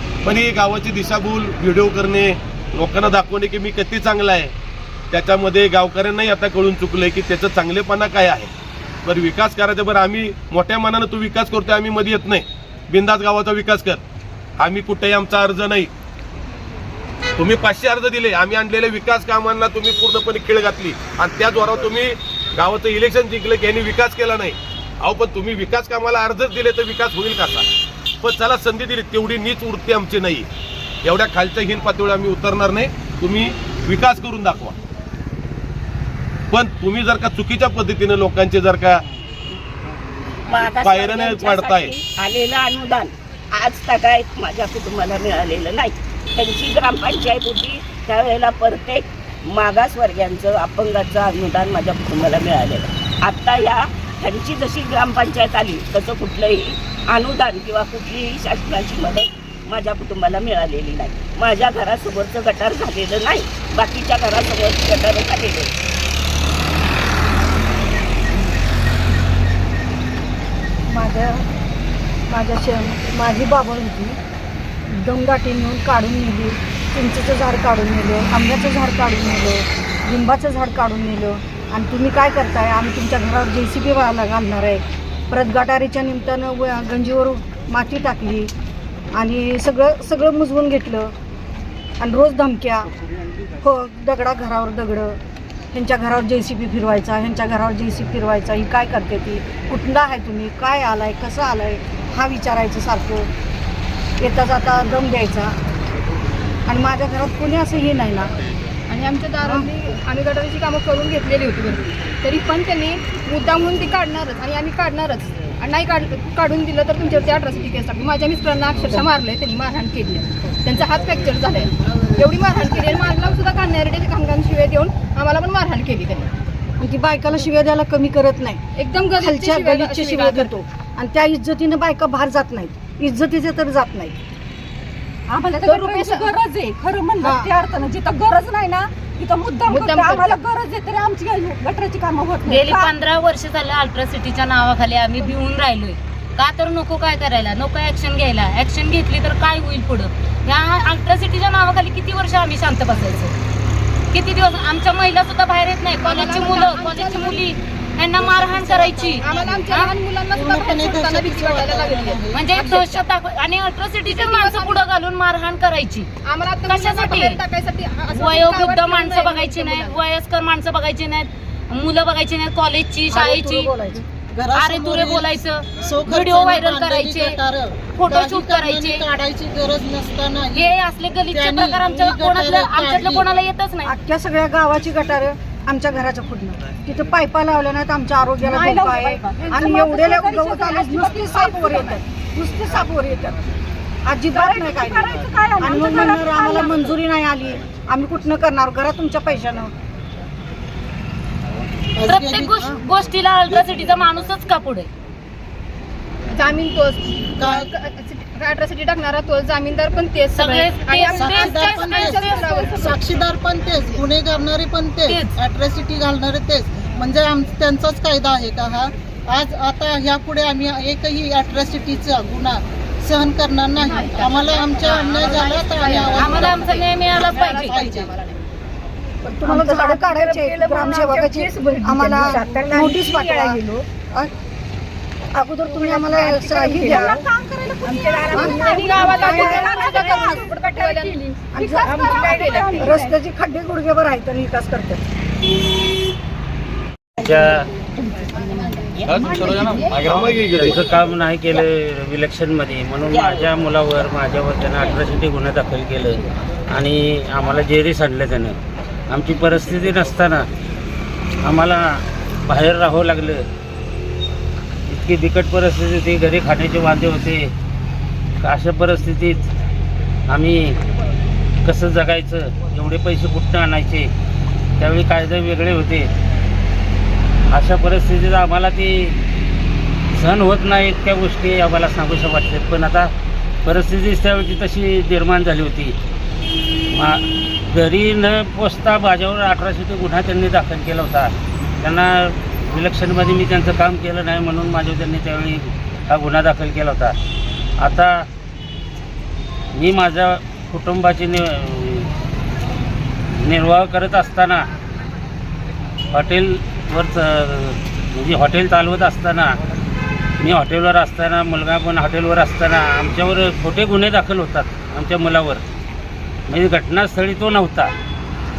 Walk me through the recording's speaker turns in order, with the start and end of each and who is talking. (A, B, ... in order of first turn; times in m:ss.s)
0:00.2-0:04.5 A
0:05.1-0:08.5 A
0:09.0-0:14.0 A
0:14.6-0:15.9 A
0:17.4-0:27.7 A
0:28.2-0:30.5 A
0:31.0-0:34.8 A
0:36.5-0:39.0 A
0:40.5-1:05.7 B
0:40.6-0:41.9 A
1:10.9-1:11.4 C
1:12.3-1:14.2 C
1:14.9-1:28.5 C
1:29.1-1:31.1 C
1:32.0-1:32.9 C
1:33.6-1:35.2 C
1:35.7-1:43.3 C
1:44.2-1:45.6 C
1:46.7-1:48.3 C
1:48.9-2:06.3 D
2:06.8-2:08.6 C
2:08.8-2:10.5 D
2:09.2-2:14.2 C
2:15.3-2:16.2 C
2:15.4-2:22.9 E
2:15.6-2:16.3 D
2:17.2-2:17.5 C
2:19.6-2:20.4 D
2:22.4-2:33.4 F
2:34.1-2:40.0 F
2:36.0-2:37.4 D
2:38.2-2:39.8 G
2:39.2-2:43.1 D
2:40.3-2:42.5 G
2:42.3-2:46.1 F
2:44.0-2:44.9 D
2:46.2-2:50.0 D
2:46.6-2:47.4 F
2:48.1-2:53.7 F
2:53.1-2:53.4 G
2:53.1-2:54.1 C
2:54.2-3:03.3 G
2:54.6-2:57.4 F
2:58.0-2:59.0 F
3:00.6-3:03.9 F
3:03.8-3:13.4 C
3:08.4-3:12.0 E
3:14.0-3:19.7 C
3:14.3-3:17.0 E
3:22.0-3:22.8 G
3:22.1-3:24.9 F
3:23.5-3:23.8 G
3:26.3-3:33.0 D
3:27.4-3:27.7 G
3:30.3-3:32.7 F
3:31.0-3:48.1 G
3:43.8-3:48.5 D
3:46.1-3:47.7 F
3:49.2-3:53.6 C
3:49.4-3:53.8 E
3:55.3-3:58.7 C
3:55.6-4:03.2 E
3:57.8-4:03.0 D
3:59.2-4:00.3 C
4:01.5-4:02.0 C
4:02.8-4:05.0 C
4:07.2-4:07.7 H
4:09.1-4:09.8 B
4:09.4-4:09.8 H
4:10.5-4:18.6 H
4:13.1-4:13.4 B
4:19.1-4:20.4 H
4:21.4-4:23.4 H
4:24.9-4:27.5 H
4:28.4-4:29.5 H
4:30.3-4:30.8 H
4:31.6-4:34.1 H
4:34.8-4:36.1 H
4:37.5-4:39.2 H
4:40.1-4:43.1 H
4:43.6-4:46.0 H
4:46.9-4:57.2 H
4:57.8-4:58.3 H
4:59.7-5:02.1 H
5:03.3-5:04.7 H
5:06.1-5:09.6 H
5:10.4-5:15.6 H
5:16.5-5:17.9 H